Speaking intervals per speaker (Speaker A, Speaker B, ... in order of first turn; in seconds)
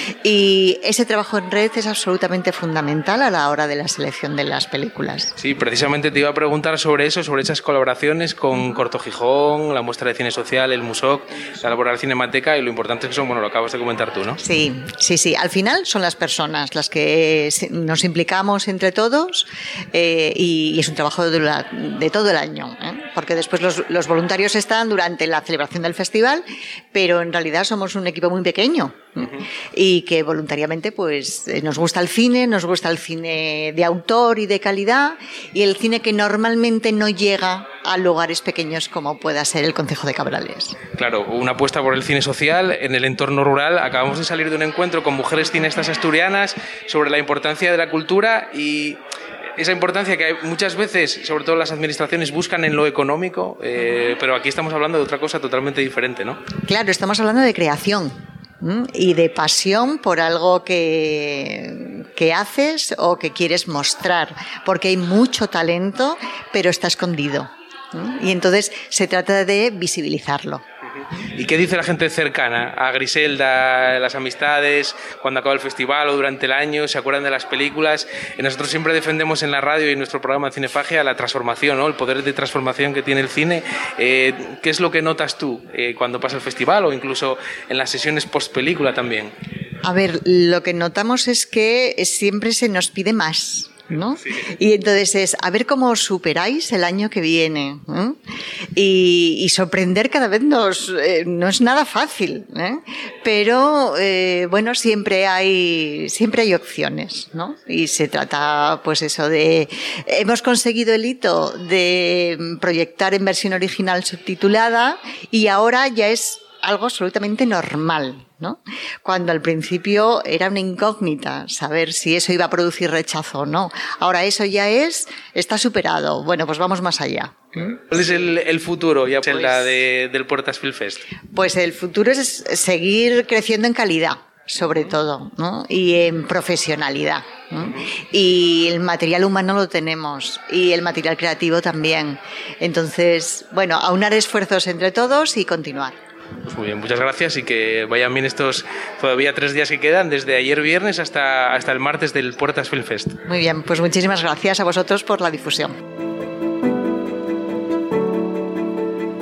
Speaker A: 0.2-5.3, 14.4-40.8, 56.6-70.6, 89.8-98.2, 98.8-127.8, 129.4-129.8, 131.3-145.9, 153.3-155.7
Speaker B: 5.4-14.4, 41.0-49.0, 49.6-56.4, 70.9-89.3, 127.9-131.1, 146.4-153.2